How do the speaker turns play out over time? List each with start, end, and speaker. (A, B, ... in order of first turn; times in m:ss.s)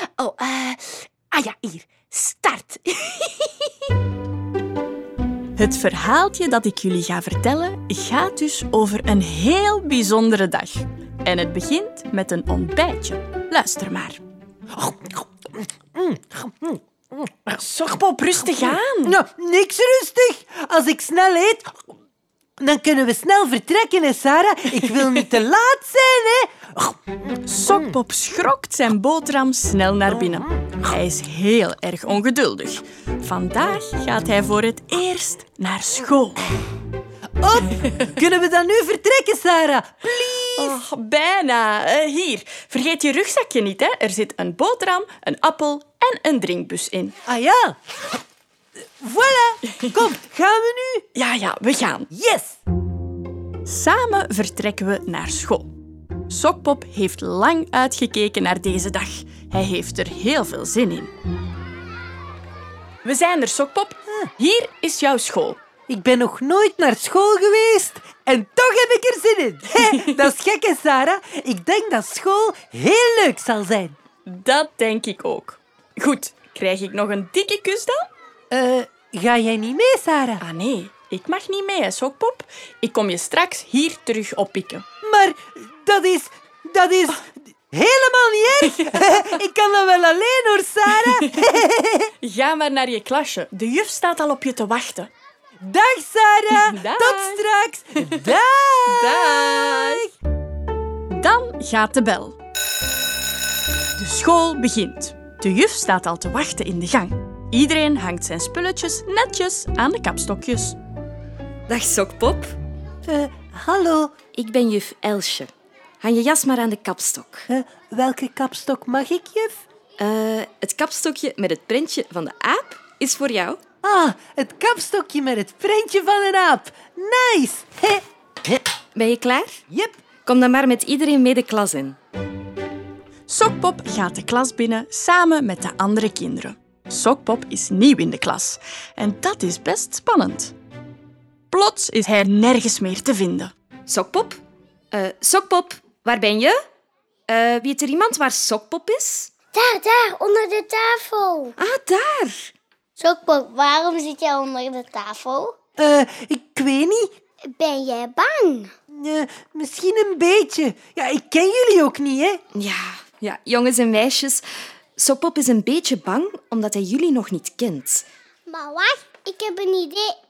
0:00.2-0:03.7 A
0:05.6-0:14.2 B
0:14.7-0:17.6 C
0:17.6-0:19.2 B
0:18.3-0:21.8 C
0:22.6-0:28.0 C
0:27.5-0:36.5 B
0:30.1-0:30.8 C
0:37.4-0:40.8 C
0:40.6-0:47.2 B
0:47.3-0:47.8 C
0:49.0-0:51.1 C
0:51.2-0:52.1 B
0:52.1-0:52.6 C
0:53.6-0:55.7 B
0:56.3-1:01.1 B
1:03.0-1:05.6 B
1:05.9-1:14.0 C
1:14.3-1:18.1 B
1:18.5-1:20.4 C
1:20.4-1:24.8 B
1:25.0-1:32.1 C
1:32.2-1:35.1 B
1:35.6-1:40.0 C
1:36.5-1:37.4 B
1:38.9-1:40.1 B
1:41.1-1:42.4 B
1:44.0-1:50.8 B
1:51.7-1:52.5 D
1:53.1-1:54.1 C
1:54.4-1:57.5 D
1:57.5-1:59.6 C
2:00.0-2:03.6 D
2:03.8-2:08.6 C
2:09.0-2:09.6 D
2:09.7-2:10.0 C
2:10.3-2:12.0 D
2:13.3-2:20.6 B
2:21.5-2:23.5 B
2:23.9-2:24.4 D
2:24.9-2:26.6 D
2:27.3-2:29.3 D
2:29.5-2:31.5 E
2:31.6-2:32.5 D
2:33.0-2:35.6 E
2:35.8-2:37.1 C
2:37.5-2:38.7 E
2:38.9-2:42.4 C
2:42.6-2:44.4 D
2:45.0-2:48.1 D
2:48.5-2:50.1 E